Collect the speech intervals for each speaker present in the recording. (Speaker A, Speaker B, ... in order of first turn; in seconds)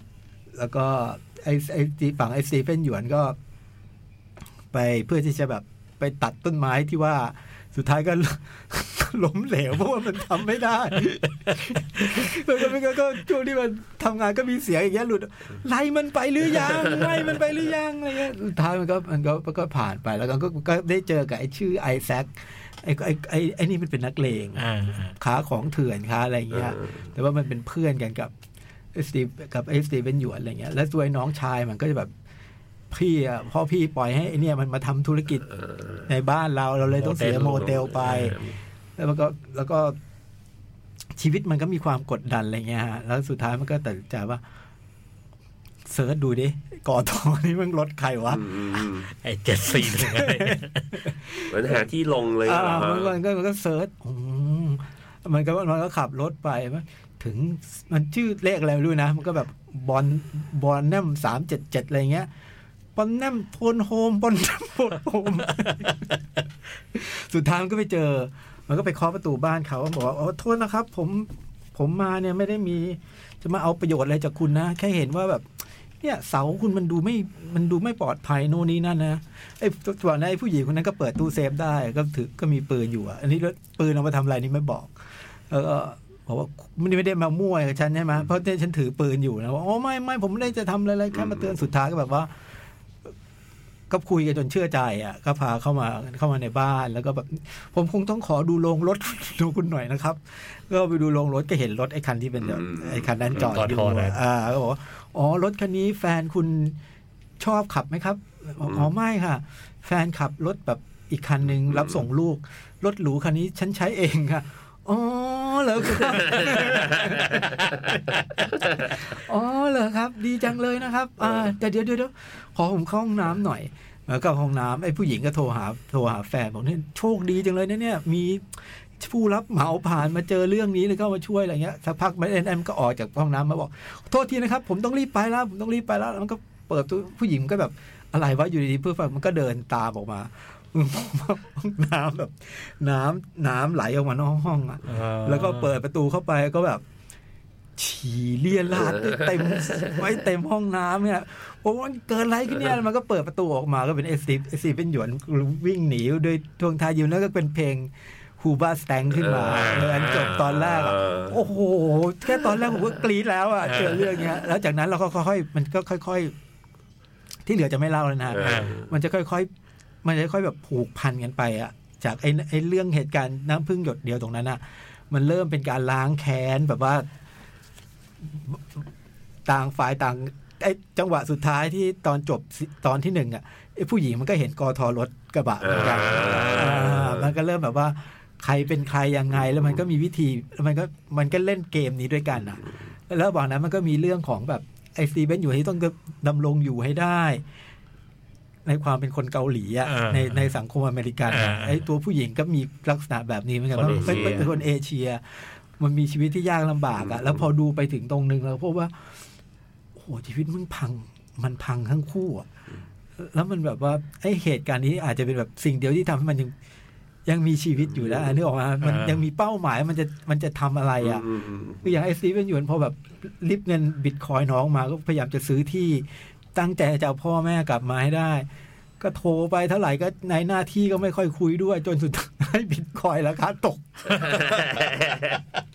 Speaker A: 0.5-3.4, 4.7-28.3, 28.9-32.1, 32.9-35.5, 36.0-38.4, 39.0-40.0, 41.1-44.4, 45.9-48.5, 49.7-51.8, 52.4-62.3, 63.0-66.1, 66.9-92.3, 93.9-106.8, 107.4-146.8, 147.8-166.3, 167.4-169.5, 170.0-177.1, 178.2-178.8, 179.4-197.4, 198.6-209.2, 209.9-212.5, 213.2-216.5, 217.2-221.3, 221.8-228.5, 229.0-234.6
Speaker B: 24.6-25.1, 36.9-38.3, 49.1-51.0, 103.4-104.2, 144.8-145.8, 159.5-160.3, 163.6-164.0, 168.4-168.8, 185.7-187.1, 199.8-200.5, 201.3-201.8, 203.7-204.5, 218.8-219.2
Speaker C: 26.6-26.9, 35.5-36.0, 37.3-38.5, 48.3-49.1, 51.5-53.1, 91.2-91.5, 102.4-103.5, 116.4-117.4, 148.8-149.9, 159.1-161.4, 168.3-168.9, 185.6-187.3, 203.9-204.5, 207.1-207.3, 218.0-218.3, 221.0-221.9, 234.2-235.4